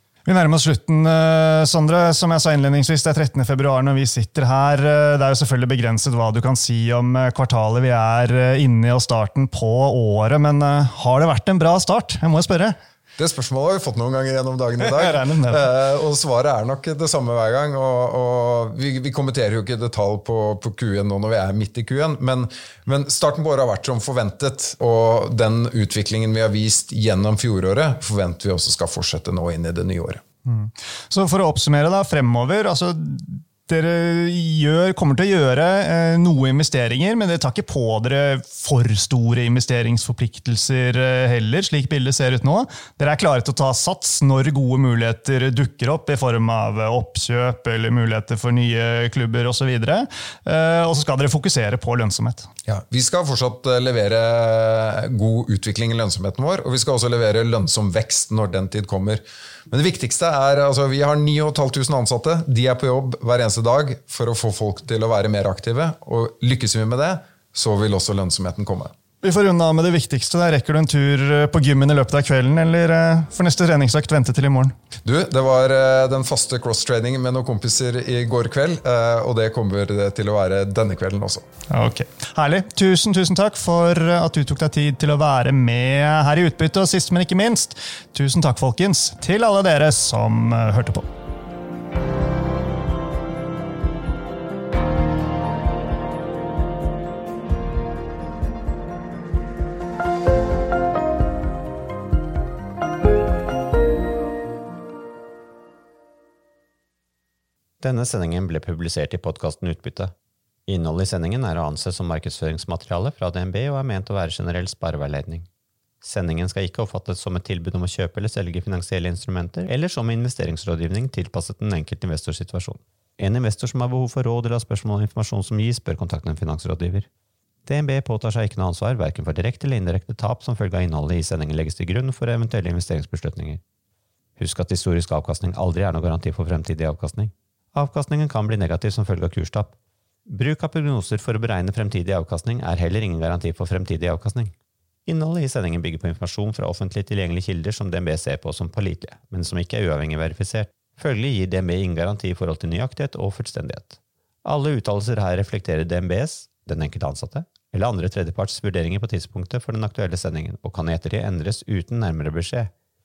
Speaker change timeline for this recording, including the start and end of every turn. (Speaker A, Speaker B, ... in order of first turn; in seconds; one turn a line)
Speaker A: 0.2-12.7
Speaker B: 13.2-30.2
Speaker A: 14.8-15.6
Speaker A: 30.4-52.5
Speaker B: 52.6-68.9
Speaker A: 69.2-74.7
Speaker B: 75.0-81.5
Speaker A: 81.7-91.1
Speaker C: 107.8-110.1
Speaker C: 110.7-115.5
Speaker C: 116.0-127.1
Speaker C: 127.7-133.6
Speaker C: 134.4-144.5
Speaker C: 145.1-162.7